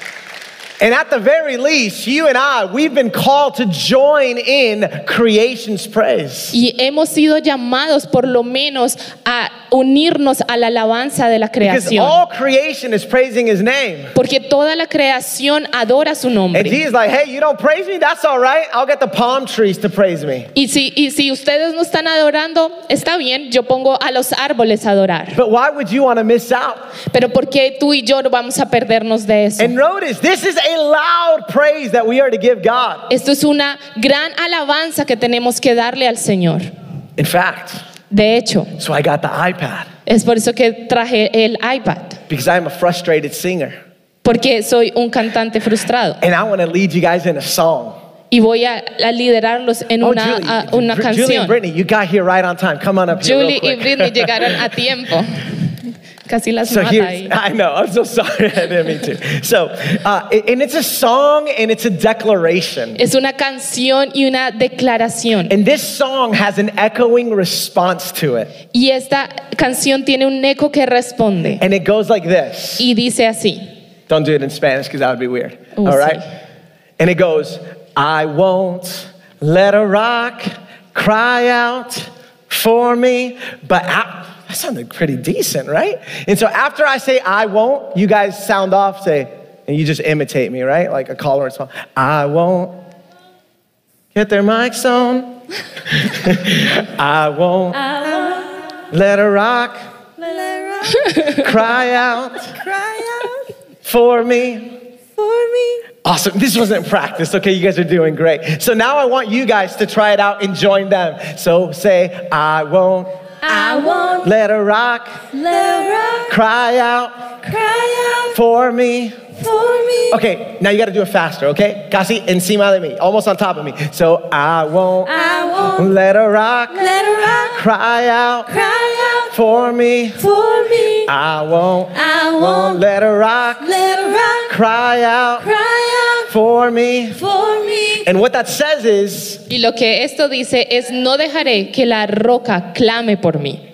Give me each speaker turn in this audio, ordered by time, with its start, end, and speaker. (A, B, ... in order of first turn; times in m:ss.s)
0:00.8-0:06.6 A
0:06.5-0:12.2 B
0:11.6-0:14.1 A
0:14.1-0:16.8 B
0:16.5-0:20.5 A
0:20.6-0:25.4 B
0:25.4-0:26.8 A
0:27.1-0:29.8 B
0:29.6-0:33.1 A
0:33.1-0:36.7 B
0:37.2-0:37.8 A
0:38.1-0:38.8 B
0:38.8-0:39.9 A
0:40.1-0:42.2 B
0:42.3-0:43.8 A
0:44.2-0:46.2 B
0:46.2-0:48.0 A
0:48.3-0:51.6 B
0:50.0-0:54.7 A
0:53.2-0:55.5 B
0:56.3-0:57.3 B
0:56.6-1:03.0 A
1:03.0-1:05.5 B
1:05.5-1:08.5 A
1:08.7-1:11.6 B
1:11.6-1:12.9 A
1:12.8-1:13.6 B
1:14.1-1:16.2 A
1:15.8-1:16.2 B
1:17.0-1:32.8 A
1:34.1-1:37.8 A
1:37.8-1:38.6 C
1:38.9-1:39.8 A
1:40.2-1:41.5 C
1:41.2-1:42.6 A
1:42.6-1:43.4 C
1:43.8-1:44.8 A
1:45.2-1:45.9 C
1:46.0-1:55.2 A
1:53.4-1:54.3 C
1:55.3-1:56.3 C
1:56.3-1:57.3 A
1:57.4-1:58.4 C
1:58.3-1:59.2 A
1:59.4-2:00.2 C
2:00.1-2:05.2 A
2:05.1-2:05.9 C
2:05.7-2:08.5 A
2:06.7-2:07.6 C
2:08.5-2:09.3 C
2:09.3-2:10.2 A
2:10.2-2:11.1 C
2:11.0-2:13.8 A
2:11.9-2:12.8 C
2:13.6-2:14.5 C
2:14.5-2:15.5 A
2:15.4-2:16.3 C
2:16.3-2:17.2 A
2:17.2-2:18.1 C
2:18.0-2:19.4 A
2:19.5-2:23.6 B